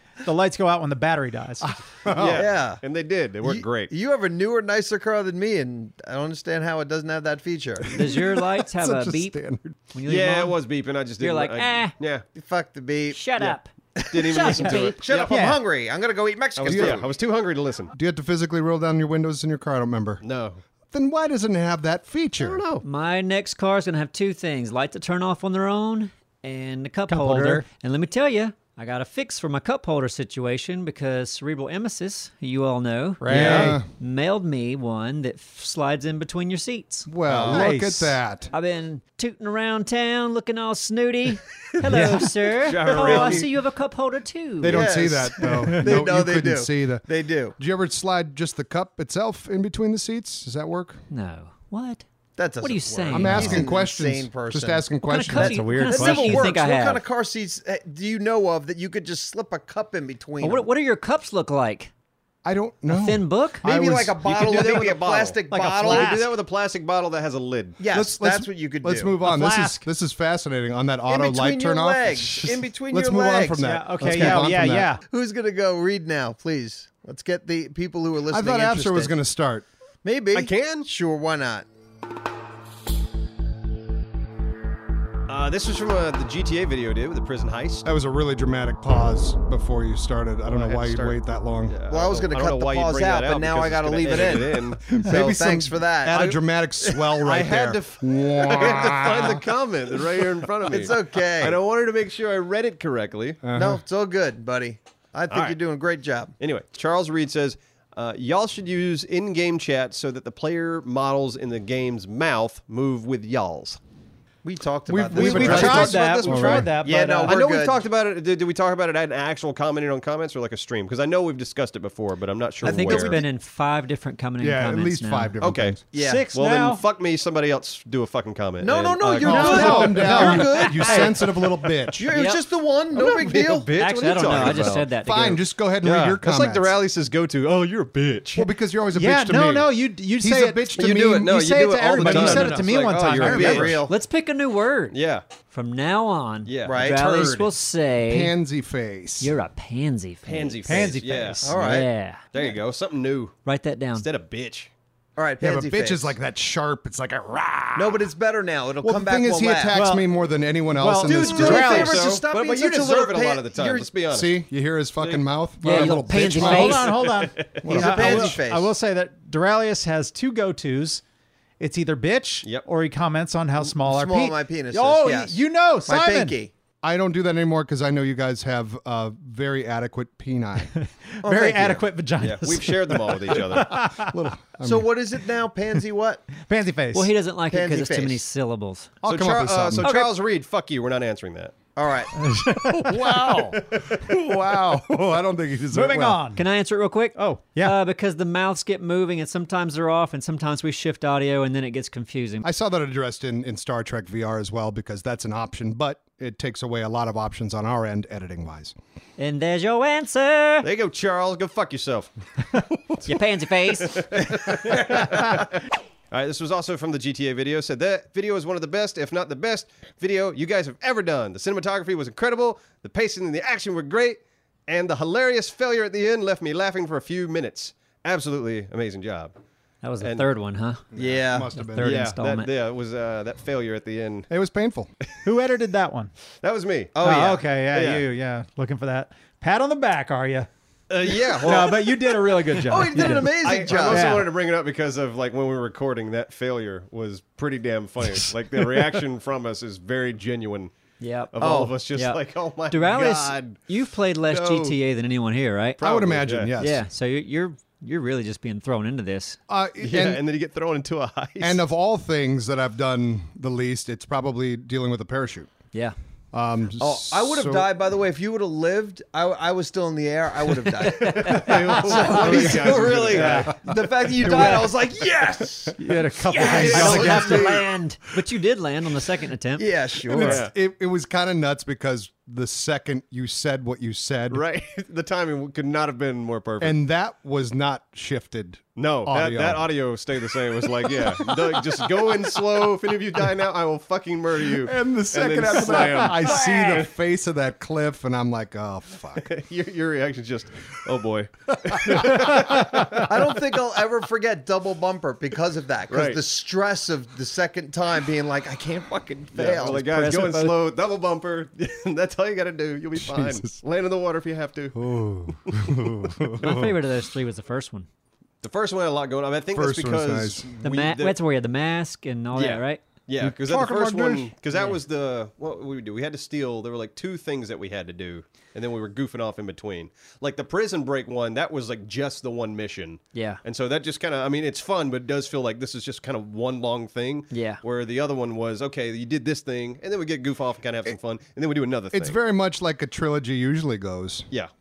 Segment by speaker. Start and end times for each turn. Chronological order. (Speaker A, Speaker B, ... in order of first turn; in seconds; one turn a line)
Speaker A: 0.2-1.7
Speaker B: 1.6-2.5
Speaker C: 2.0-3.9
Speaker D: 2.3-2.8
Speaker D: 3.4-8.0
Speaker E: 7.9-9.4
Speaker B: 8.0-9.7
Speaker E: 9.9-10.6
Speaker C: 10.1-12.2
Speaker E: 11.2-11.9
Speaker D: 12.3-14.3
Speaker E: 13.1-15.0
Speaker C: 14.1-15.4
Speaker D: 15.0-17.1
Speaker A: 15.3-15.6
Speaker C: 16.6-17.9
Speaker B: 16.7-17.0
Speaker B: 17.9-20.2
Speaker C: 20.2-20.6
Speaker B: 20.9-22.6
Speaker C: 22.4-22.8
Speaker E: 22.8-37.1
Speaker A: 27.1-27.6
Speaker D: 33.2-33.8
Speaker C: 33.3-33.7
Speaker A: 33.3-33.7
Speaker B: 33.4-33.8
Speaker B: 37.0-38.5
Speaker D: 37.2-37.7
Speaker A: 37.5-38.1
Speaker E: 38.5-45.0
Speaker A: 41.9-42.7
Speaker C: 42.6-43.5
Speaker B: 42.9-43.4
Speaker B: 44.6-47.0
Speaker D: 44.6-47.5
Speaker A: 45.4-45.8
Speaker B: 47.6-51.0
Speaker E: 51.1-52.0
Speaker D: 52.4-60.7
Speaker E: 52.6-53.7
Speaker B: 53.1-56.3
Speaker E: 55.0-57.0
Speaker A: 55.4-56.4
Speaker E: 60.4-61.9
Speaker B: 62.4-64.2
Speaker E: 62.9-63.6
Speaker D: 63.6-66.1
Speaker C: 64.2-67.8
Speaker A: 65.5-66.3
Speaker D: 67.8-69.1
Speaker B: 67.9-74.9
Speaker A: 69.2-69.8
Speaker D: 71.1-74.5
Speaker A: 73.6-75.0
Speaker D: 75.1-79.2
Speaker B: 78.3-79.7
Speaker D: 80.0-81.7
Speaker C: 80.3-80.9
Speaker C: 85.3-87.9
Speaker B: 87.8-91.8
Speaker C: 90.5-94.8
Speaker D: 91.9-97.0
Speaker B: 94.8-99.5
Speaker C: 96.0-96.4
Speaker C: 97.2-103.4
Speaker D: 100.7-101.6
Speaker B: 103.4-103.8
Speaker D: 103.5-106.3
Speaker C: 105.3-105.6
Speaker C: 106.4-113.8
Speaker D: 114.4-116.0
Speaker B: 114.9-116.7
Speaker A: 115.1-117.4
Speaker C: 115.2-123.2
Speaker D: 116.8-117.8
Speaker D: 122.6-123.2
Speaker E: 122.6-125.3
Speaker B: 124.4-125.8
Speaker C: 125.4-130.6
Speaker D: 125.9-126.3
Speaker A: 126.0-126.8
Speaker D: 128.6-131.2
Speaker B: 129.2-132.1
Speaker A: 129.2-131.1
Speaker D: 131.9-133.7
Speaker E: 132.1-132.4
Speaker C: 132.9-134.9
Speaker E: 133.8-135.4
Speaker B: 134.7-136.8
Speaker C: 135.8-138.5
Speaker B: 138.3-141.3
Speaker A: 138.9-143.8
Speaker C: 140.8-143.9
Speaker D: 140.8-143.9
Speaker E: 143.9-144.9
Speaker C: 144.9-145.2
Speaker E: 145.5-148.3
Speaker C: 146.4-147.4
Speaker D: 146.7-147.4
Speaker B: 148.1-149.3
Speaker E: 149.2-150.9
Speaker C: 150.2-153.4
Speaker A: 150.6-151.5
Speaker D: 151.4-152.6
Speaker E: 151.5-152.2
Speaker E: 153.4-154.1
Speaker C: 153.9-154.7
Speaker D: 155.2-156.1
Speaker B: 155.4-158.1
Speaker D: 157.8-159.8
Speaker B: 158.8-161.7
Speaker A: 159.7-160.1
Speaker A: 160.7-162.2
Speaker D: 161.0-163.9
Speaker C: 161.2-164.4
Speaker B: 164.1-166.9
Speaker C: 165.0-166.0
Speaker E: 165.6-166.9
Speaker A: 165.8-171.0
Speaker C: 166.6-167.6
Speaker B: 167.6-168.4
Speaker D: 167.6-168.7
Speaker A: 171.6-176.4
Speaker D: 173.8-176.5
Speaker B: 176.8-180.7
Speaker A: 180.7-184.2
Speaker D: 181.2-181.8
Speaker C: 182.2-183.9
Speaker B: 183.6-184.9
Speaker D: 184.6-186.3
Speaker A: 186.3-187.1
Speaker E: 186.9-188.9
Speaker D: 187.5-188.2
Speaker B: 189.0-189.9
Speaker C: 189.0-191.5
Speaker E: 189.8-190.1
Speaker D: 191.8-192.1
Speaker A: 192.1-193.6
Speaker B: 192.8-196.2
Speaker C: 193.3-194.8
Speaker A: 195.7-196.4
Speaker E: 196.3-202.4
Speaker A: 197.1-197.8
Speaker B: 202.4-208.7
Speaker E: 209.2-210.7
Speaker C: 210.6-213.1
Speaker E: 213.0-214.2
Speaker C: 213.8-229.3
Speaker E: 229.8-230.8
Speaker C: 230.0-230.3
Speaker B: 230.9-232.0
Speaker D: 230.9-231.5
Speaker E: 231.6-232.5
Speaker C: 231.8-234.3
Speaker B: 234.3-234.9
Speaker A: 235.2-236.1
Speaker C: 236.4-237.0
Speaker D: 236.9-237.4
Speaker A: 237.0-240.5
Speaker C: 237.7-238.1
Speaker C: 240.9-250.7
Speaker A: 241.3-244.3
Speaker D: 242.6-244.2
Speaker E: 251.0-251.3
Speaker C: 251.3-253.6
Speaker D: 251.4-251.8
Speaker E: 251.9-255.8
Speaker C: 254.3-254.8
Speaker C: 255.8-256.5
Speaker B: 255.8-256.8
Speaker E: 256.6-259.4
Speaker B: 259.5-260.2
Speaker C: 259.8-261.6
Speaker B: 261.4-265.5
Speaker B: 266.3-267.7
Speaker D: 266.8-275.9
Speaker E: 270.8-272.1
Speaker C: 270.8-273.5
Speaker A: 272.1-272.4
Speaker B: 272.1-273.7
Speaker A: 273.1-273.6
Speaker A: 274.2-274.8
Speaker A: 275.8-277.5
Speaker B: 276.3-277.7
Speaker E: 276.4-279.7
Speaker D: 276.4-277.4
Speaker C: 276.5-277.1
Speaker D: 279.6-280.5
Speaker B: 280.1-284.4
Speaker C: 280.1-280.5
Speaker C: 284.3-286.8
Speaker B: 286.6-289.7
Speaker C: 288.8-296.9
Speaker B: 290.8-292.4
Speaker B: 294.5-299.3
Speaker D: 296.5-296.8
Speaker C: 299.1-303.4
Speaker B: 301.6-303.0
Speaker D: 303.1-309.8
Speaker C: 305.9-306.2
Speaker C: 309.3-314.8
Speaker E: 309.8-310.6
Speaker B: 312.9-313.5
Speaker B: 314.7-316.7
Speaker C: 315.3-316.3
Speaker E: 316.4-317.9
Speaker C: 318.4-321.1
Speaker B: 319.5-320.5
Speaker E: 320.6-322.8
Speaker C: 322.3-342.2
Speaker B: 323.2-324.3
Speaker E: 333.1-333.4
Speaker E: 337.3-337.6
Speaker B: 341.9-344.3